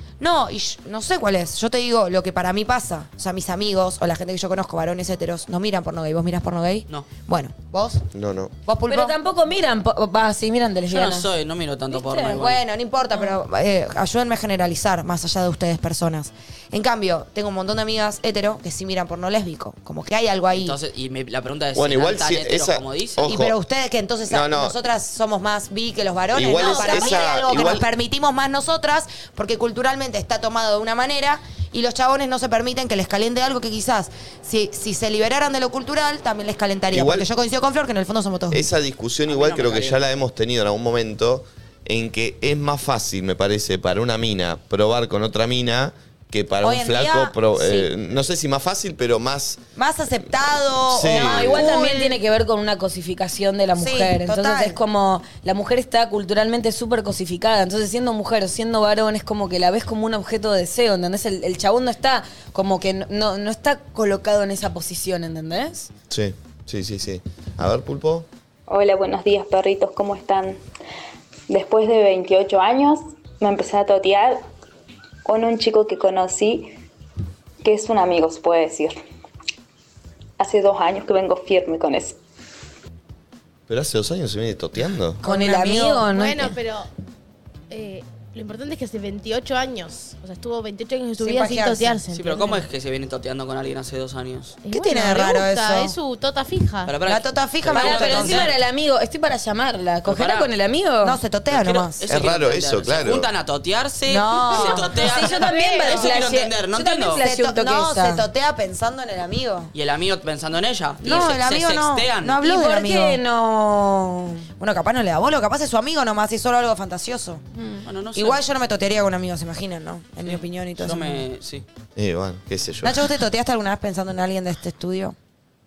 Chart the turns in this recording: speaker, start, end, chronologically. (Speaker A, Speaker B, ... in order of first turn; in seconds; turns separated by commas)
Speaker A: 0.2-8.1, Speaker B: 8.1-8.5, Speaker A: 8.7-9.2, Speaker C: 8.9-11.3, Speaker D: 10.9-12.6, Speaker C: 11.9-12.4, Speaker A: 12.2-20.8, Speaker D: 20.5-23.3, Speaker B: 21.8-23.5, Speaker A: 23.3-38.6, Speaker B: 24.3-24.8, Speaker B: 26.3-27.9, Speaker C: 26.5-27.5, Speaker B: 36.9-37.3, Speaker B: 38.5-49.6, Speaker D: 39.3-40.0, Speaker A: 46.6-47.9, Speaker A: 49.8-52.2, Speaker B: 50.9-51.7, Speaker C: 51.1-65.9, Speaker A: 53.8-54.8, Speaker B: 66.1-68.3, Speaker E: 68.7-70.6, Speaker E: 71.5-74.4, Speaker E: 75.2-76.7, Speaker E: 77.6-79.0, Speaker E: 80.4-82.2, Speaker B: 83.7-85.2, Speaker C: 85.2-86.4, Speaker A: 85.2-86.6, Speaker F: 86.1-86.9, Speaker F: 87.7-92.7, Speaker A: 91.2-92.0, Speaker D: 92.1-94.6, Speaker F: 94.6-96.9, Speaker A: 94.7-96.0, Speaker D: 96.8-98.5, Speaker A: 97.1-98.5, Speaker C: 97.8-101.2, Speaker D: 100.1-100.5, Speaker A: 101.0-102.0, Speaker D: 101.5-107.2, Speaker B: 102.1-103.3, Speaker A: 104.1-109.7, Speaker C: 105.1-108.2, Speaker F: 105.4-106.0, Speaker D: 109.7-112.4, Speaker A: 111.0-113.2, Speaker C: 112.4-114.5, Speaker A: 114.6-117.6, Speaker D: 117.8-118.4, Speaker A: 118.2-121.2, Speaker D: 120.2-121.7, Speaker B: 122.0-123.0, Speaker A: 122.8-125.2